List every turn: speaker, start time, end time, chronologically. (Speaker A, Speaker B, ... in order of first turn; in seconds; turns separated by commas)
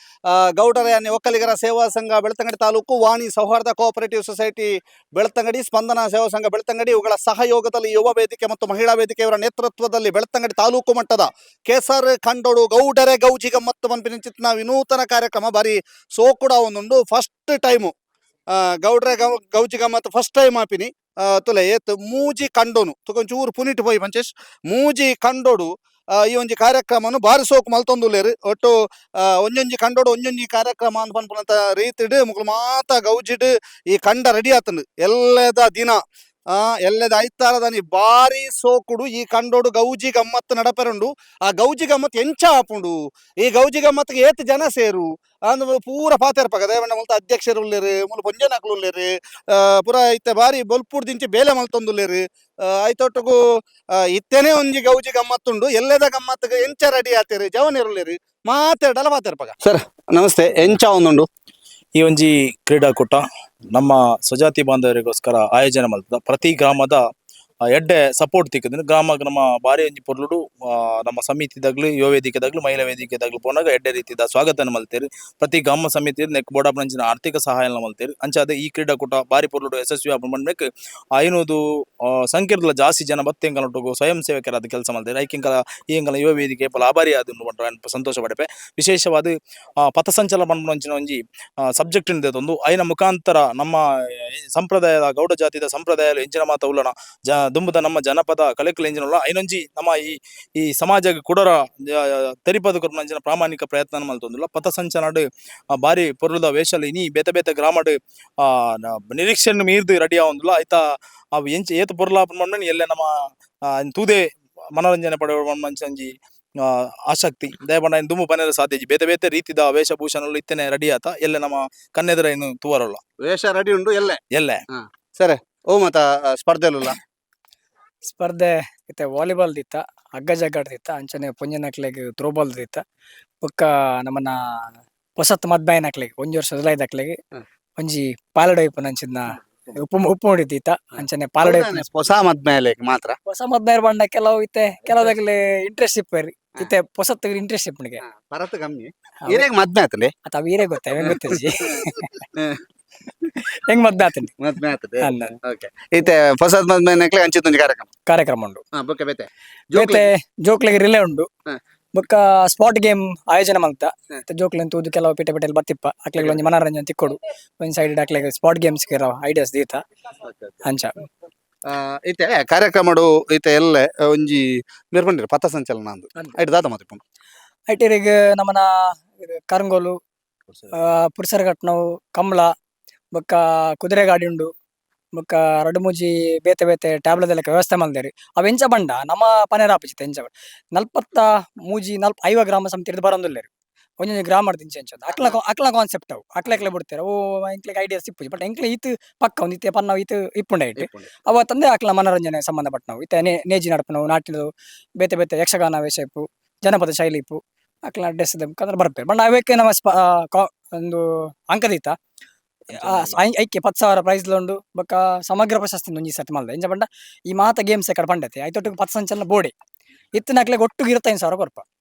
Speaker A: 0.3-17.9, Speaker A: 18.5-25.7, Speaker A: 26.2-36.0, Speaker A: 36.5-53.4, Speaker A: 54.1-61.3, Speaker B: 62.0-67.0, Speaker B: 67.7-80.7, Speaker B: 81.2-89.3, Speaker B: 89.8-91.2, Speaker B: 91.7-93.8, Speaker B: 94.3-110.8, Speaker B: 111.3-113.1, Speaker B: 113.7-114.2, Speaker B: 114.8-116.1, Speaker B: 116.6-123.0, Speaker A: 123.2-124.2, Speaker B: 124.3-124.6, Speaker A: 124.7-127.0, Speaker C: 128.1-132.8, Speaker C: 133.4-134.4, Speaker C: 135.2-137.2, Speaker C: 137.8-141.9, Speaker A: 141.4-143.2, Speaker C: 143.3-148.0, Speaker A: 148.0-150.1, Speaker C: 150.2-152.2, Speaker C: 153.5-154.3, Speaker A: 154.4-157.9, Speaker C: 155.0-155.4, Speaker C: 158.1-158.6, Speaker A: 158.8-160.1, Speaker C: 159.7-161.3, Speaker C: 161.9-169.8, Speaker A: 170.2-170.6, Speaker C: 170.6-171.1, Speaker A: 171.7-177.0, Speaker C: 177.7-180.0, Speaker C: 180.7-182.5, Speaker C: 183.2-184.5, Speaker C: 185.2-193.5, Speaker C: 194.0-211.9, Speaker A: 200.8-201.1, Speaker C: 212.8-219.5, Speaker A: 212.8-213.2, Speaker C: 220.1-221.6